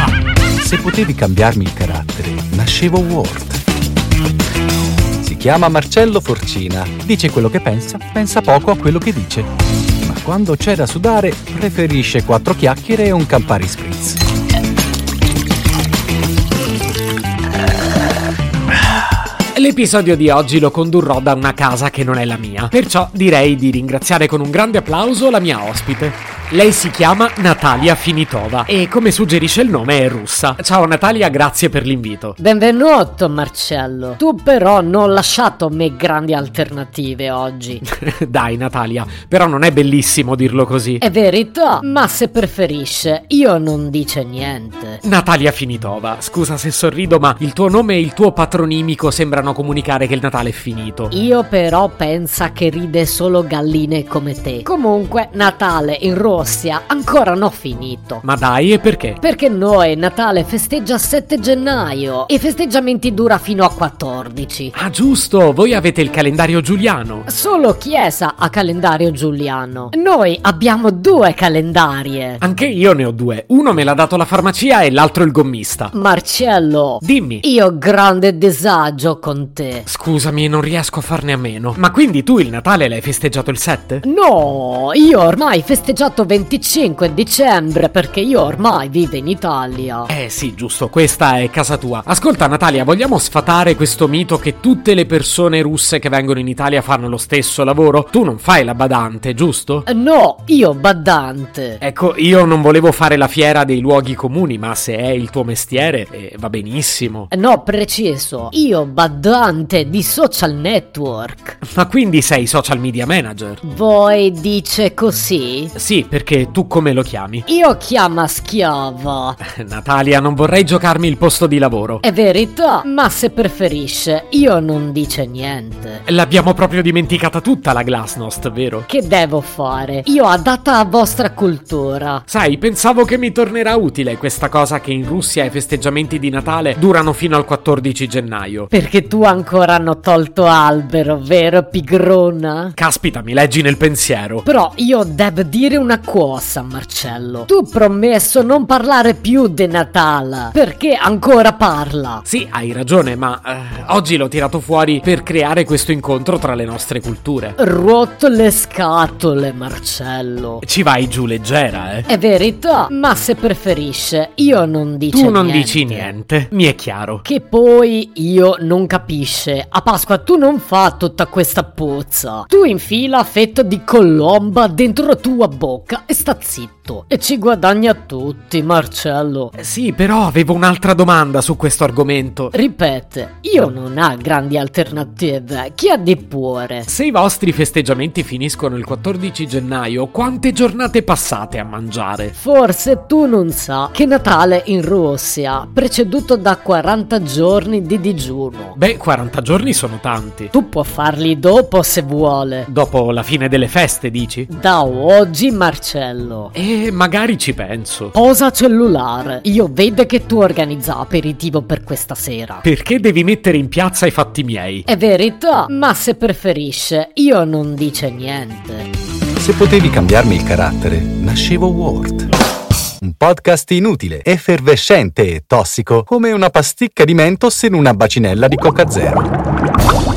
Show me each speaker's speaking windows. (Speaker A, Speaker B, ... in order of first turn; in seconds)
Speaker A: 0.6-3.6, 5.2-9.5, 10.0-14.2, 219.4-222.3, 223.0-229.3
Speaker B: 19.5-32.4, 37.9-41.0, 45.0-51.1, 58.2-59.2, 64.7-67.3, 72.4-75.9, 77.0-77.4, 79.9-84.0, 90.1-99.9, 101.8-107.3, 111.6-113.6, 115.8-117.5, 119.4-122.0, 126.1-128.9, 132.3-138.7, 142.8-144.4, 152.2-157.6, 160.6-162.1, 165.1-167.2, 179.6-182.5, 186.9-192.3, 198.8-200.5, 202.7-204.5, 206.5-208.1, 212.6-214.8
Speaker C: 32.4-37.8, 41.0-45.0, 51.1-58.2, 59.2-64.7, 67.3-72.4, 75.9-79.9, 84.0-90.1, 99.9-101.8, 107.3-111.6, 113.6-115.7, 117.5-119.4, 122.0-126.0, 128.9-132.2, 138.7-142.8, 144.5-152.2, 157.6-160.6, 162.1-166.1, 167.2-179.5, 182.5-186.9, 192.4-198.8, 200.5-202.7, 204.5-206.5, 208.1-212.7, 214.9-218.9